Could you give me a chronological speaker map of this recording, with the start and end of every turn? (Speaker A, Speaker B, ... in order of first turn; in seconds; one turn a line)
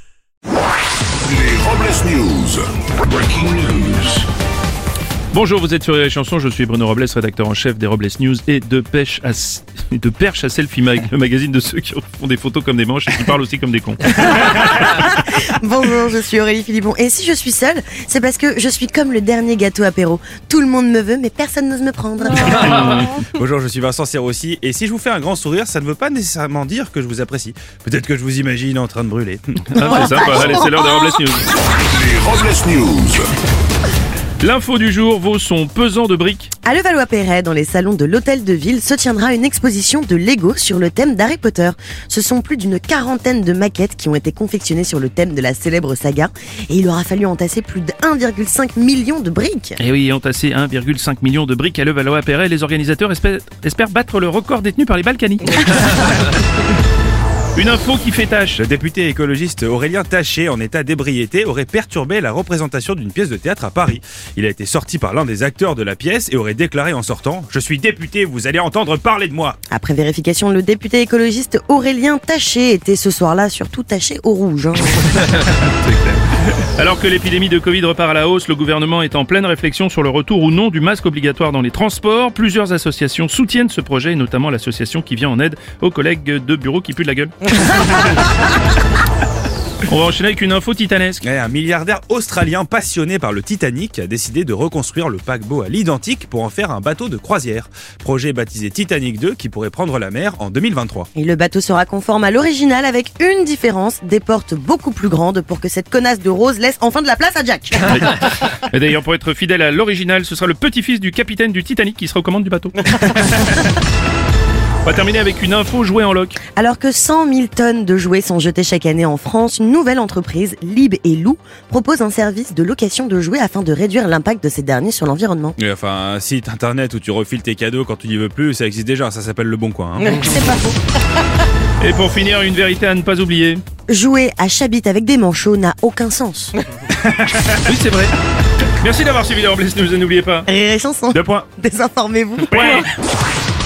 Speaker A: 1.2-4.3
Speaker B: 5.3-14.2
Speaker C: 14.3-22.5
Speaker D: 22.4-30.0
Speaker B: 22.6-23.2
Speaker B: 29.7-31.5
Speaker C: 29.9-30.6
Speaker A: 31.8-33.3
Speaker B: 34.4-36.5
Speaker C: 36.7-49.7
Speaker B: 49.8-56.2
Speaker B: 57.5-58.6
Speaker D: 58.6-69.6
Speaker C: 69.7-75.0
Speaker B: 75.2-75.9
Speaker B: 76.8-88.2
Speaker B: 89.9-91.2
Speaker D: 91.2-101.1
Speaker C: 101.2-107.9
Speaker B: 107.9-113.7
Speaker B: 114.8-116.4
Speaker C: 116.6-125.5
Speaker D: 125.6-130.2
Speaker C: 130.2-130.7
Speaker B: 131.8-133.6
Speaker C: 133.9-136.5
Speaker D: 137.0-137.7
Speaker B: 137.6-138.2
Speaker B: 138.8-140.5
Speaker C: 140.5-142.5
Speaker D: 141.1-141.5
Speaker B: 142.5-142.9